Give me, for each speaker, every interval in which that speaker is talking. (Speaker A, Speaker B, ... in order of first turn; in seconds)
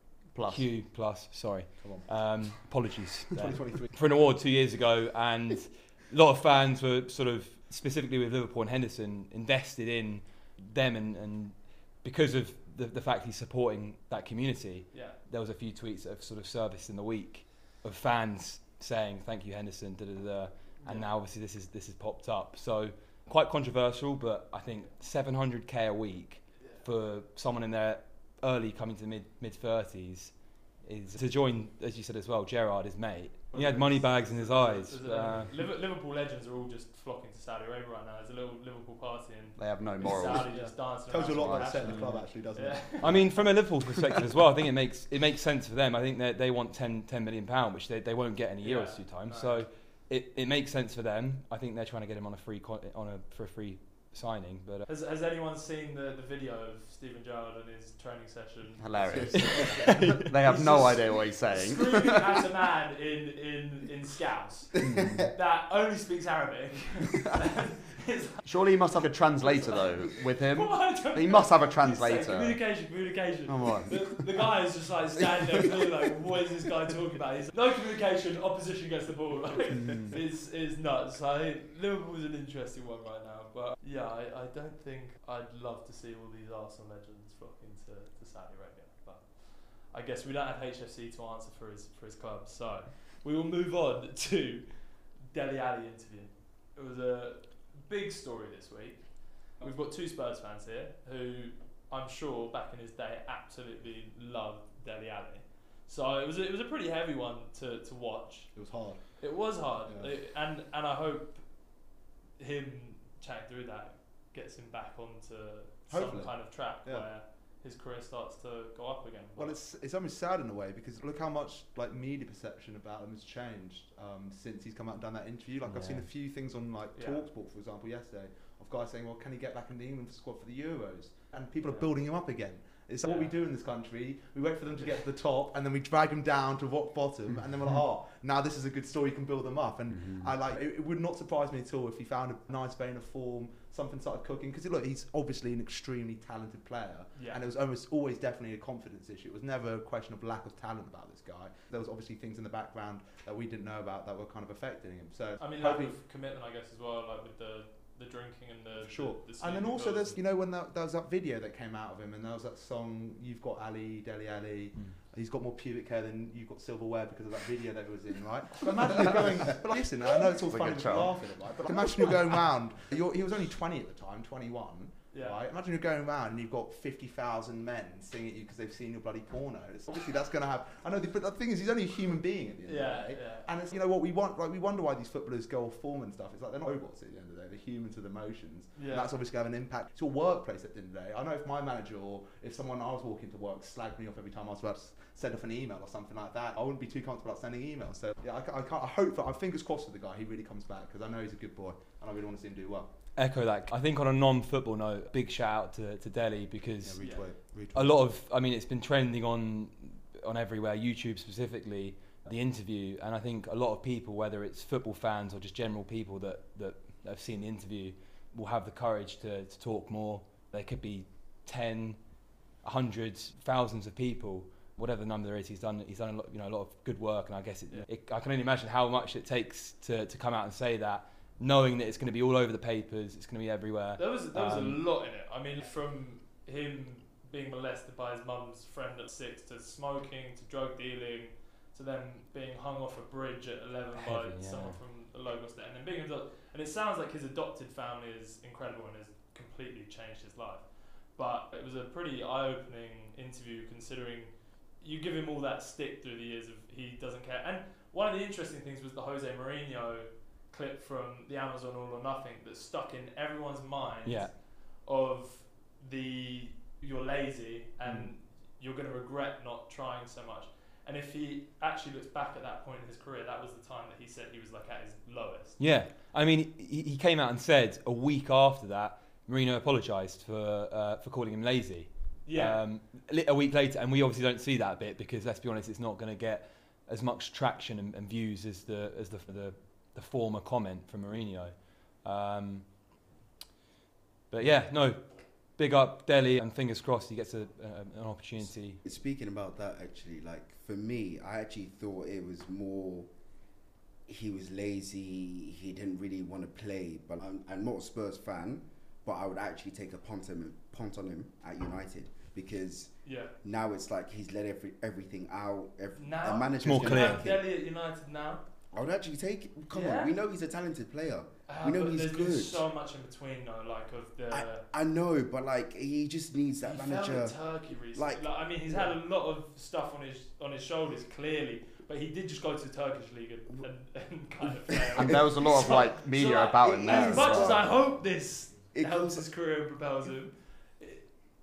Speaker A: 0.3-0.7, 39.6-40.5, 41.2-41.9, 58.8-62.4, 64.8-65.2, 68.4-72.6, 73.5-74.2, 170.5-171.1, 334.9-337.6
Speaker B: 0.5-35.5, 41.9-42.2, 43.0-54.9, 59.3-60.3, 125.7-126.0, 203.2-207.0, 207.7-222.0, 222.6-234.8, 244.0-244.8, 264.1-264.3, 275.6-292.7, 294.3-298.8, 316.6-317.3
Speaker C: 1.8-2.1, 3.4-3.9, 33.5-33.9, 40.3-43.2, 59.1-60.3, 108.5-109.0, 115.9-117.1, 119.4-156.0, 158.8-202.9, 206.8-208.0
Speaker D: 14.9-15.2, 33.5-43.2, 48.6-49.6, 54.9-68.4, 69.4-108.5, 109.2-111.4, 112.4-119.6, 127.0-127.2, 147.2-147.4, 155.4-160.2, 175.1-175.4, 182.7-183.5, 188.8-189.1, 207.0-207.3, 234.0-275.6, 282.3-282.6, 313.0-313.3, 316.0-318.4, 319.7-320.1, 321.5-324.6, 326.6-341.1
Speaker E: 298.8-303.1, 304.1-317.4, 318.7-322.6, 324.3-328.9, 335.0-335.8, 336.6-337.8, 338.8-339.3